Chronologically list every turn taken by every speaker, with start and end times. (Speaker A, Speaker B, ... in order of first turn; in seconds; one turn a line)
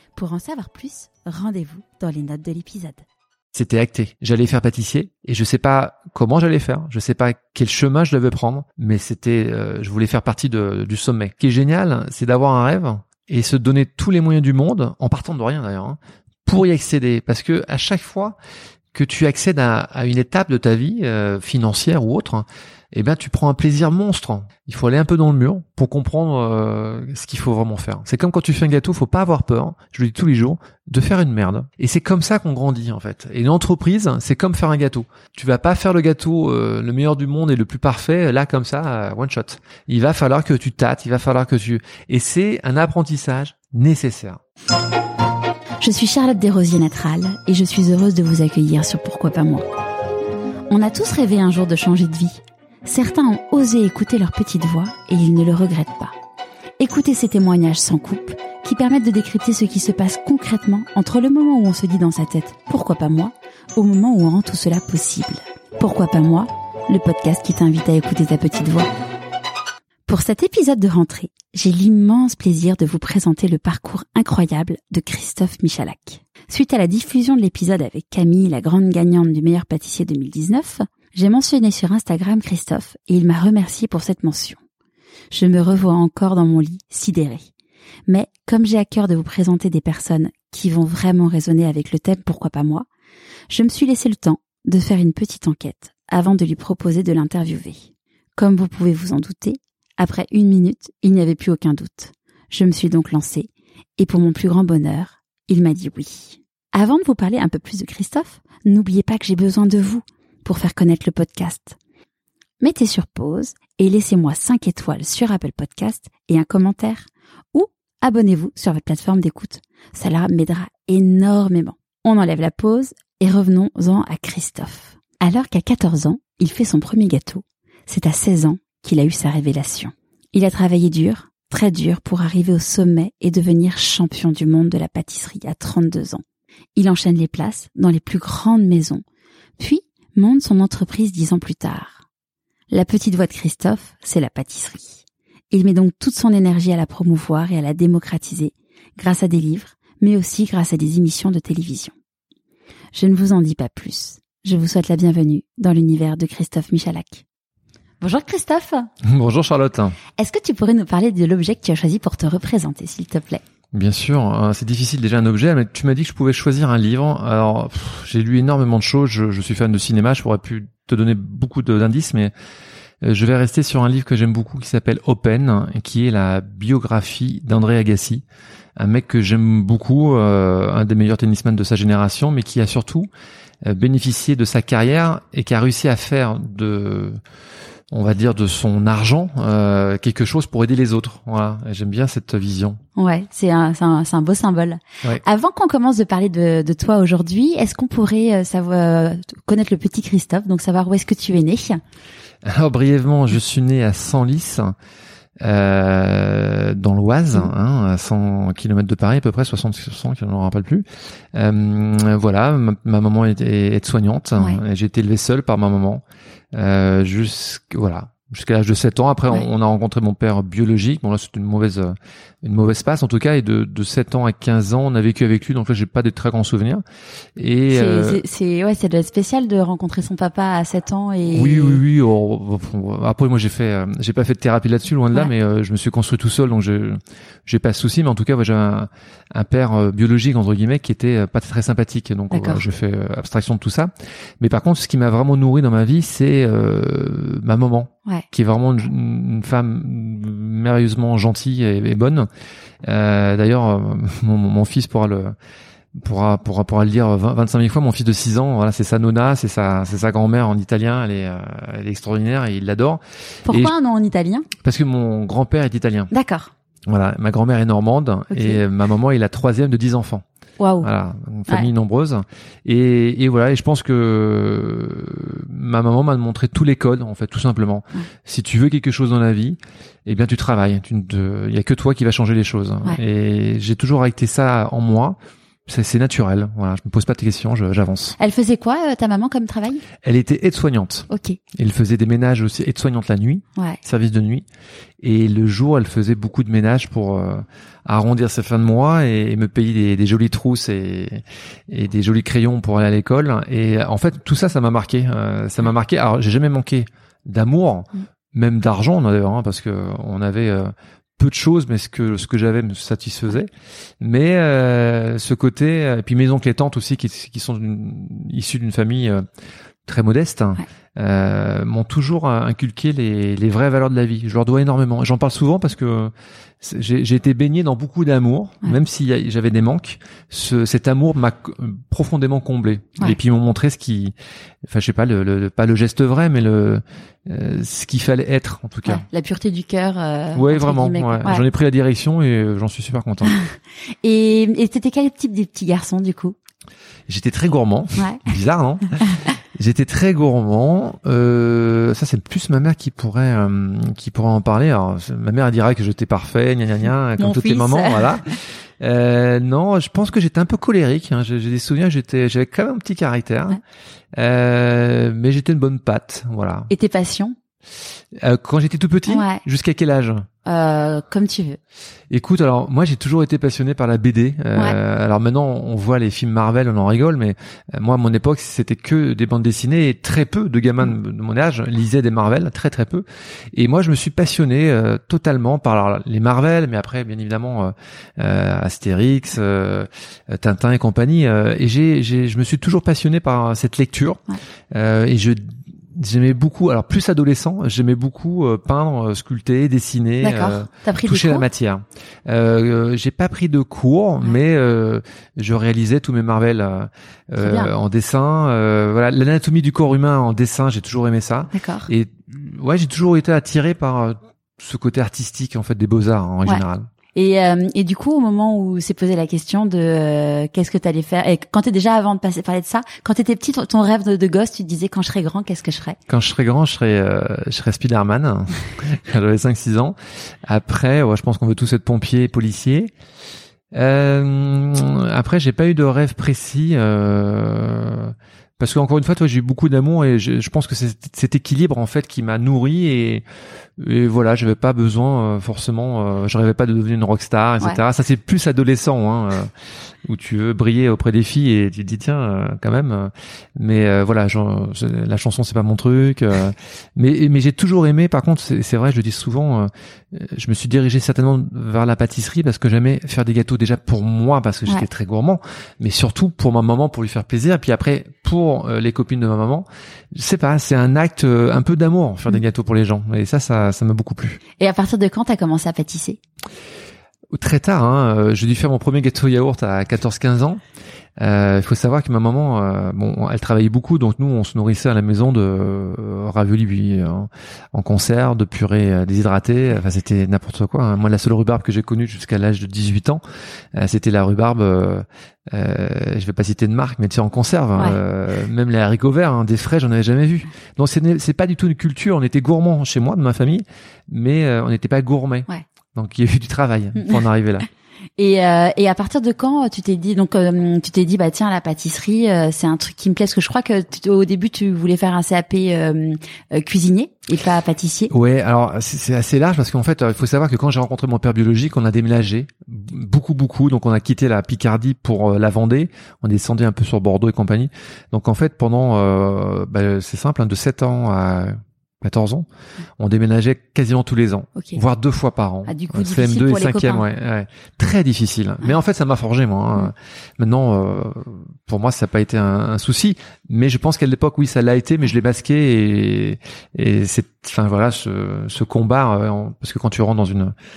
Speaker A: 0.1-3.0
Speaker B: 3.5-18.4
Speaker B: 18.9-44.4
Speaker A: 45.8-49.6
Speaker A: 50.7-56.1
Speaker A: 56.8-68.9
Speaker A: 70.1-84.6
Speaker A: 85.3-87.4
Speaker A: 88.1-92.8
Speaker A: 93.5-111.8
Speaker A: 112.6-136.2
Speaker A: 136.8-139.0
Speaker A: 139.6-142.0
Speaker A: 142.7-151.9
Speaker A: 152.9-157.2
Speaker A: 158.0-158.9
Speaker B: 159.0-160.0
Speaker A: 160.2-163.4
Speaker B: 163.7-172.3
Speaker B: 173.0-178.2
Speaker B: 178.8-183.1
Speaker B: 183.6-187.2
Speaker B: 187.9-192.8
Speaker A: 193.0-201.8
Speaker B: 202.4-204.7
Speaker B: 205.4-216.0
Speaker B: 216.5-226.8
Speaker B: 227.3-228.2
Speaker A: 227.7-231.8
Speaker B: 231.3-252.3
Speaker A: 242.3-242.6
Speaker B: 252.8-255.3
Speaker B: 255.9-263.7
Speaker A: 263.4-264.5
Speaker B: 264.6-266.1
Speaker A: 266.1-266.5
Speaker B: 266.9-270.2
Speaker A: 268.3-268.6
Speaker A: 270.6-270.9
Speaker B: 270.8-288.1
Speaker A: 288.2-289.8
Speaker B: 290.0-294.4
Speaker A: 291.1-291.4
Speaker B: 295.0-313.5
Speaker B: 314.0-319.2
Speaker B: 319.9-339.0
Speaker A: 338.9-341.4
Speaker B: 340.3-343.3
Speaker A: 344.0-346.4
Speaker B: 347.1-363.6
Speaker A: 357.2-358.2
Speaker B: 364.1-366.7
Speaker A: 366.7-367.4
Speaker B: 368.1-370.2
Speaker A: 369.1-369.4
Speaker A: 370.4-371.6
Speaker B: 372.1-394.2
Speaker B: 394.7-416.9
Speaker A: 400.2-401.4
Speaker A: 407.4-407.7
Speaker A: 411.5-411.9
Speaker A: 417.1-426.0
Speaker B: 426.1-432.9
Speaker B: 433.7-443.2
Speaker B: 443.8-449.5
Speaker B: 450.0-474.4
Speaker A: 474.6-476.2
Speaker B: 477.3-480.6
Speaker B: 481.2-493.2
Speaker B: 493.7-507.7
Speaker A: 508.2-518.1
Speaker B: 518.1-532.5
Speaker B: 533.0-550.5
Speaker A: 535.7-537.0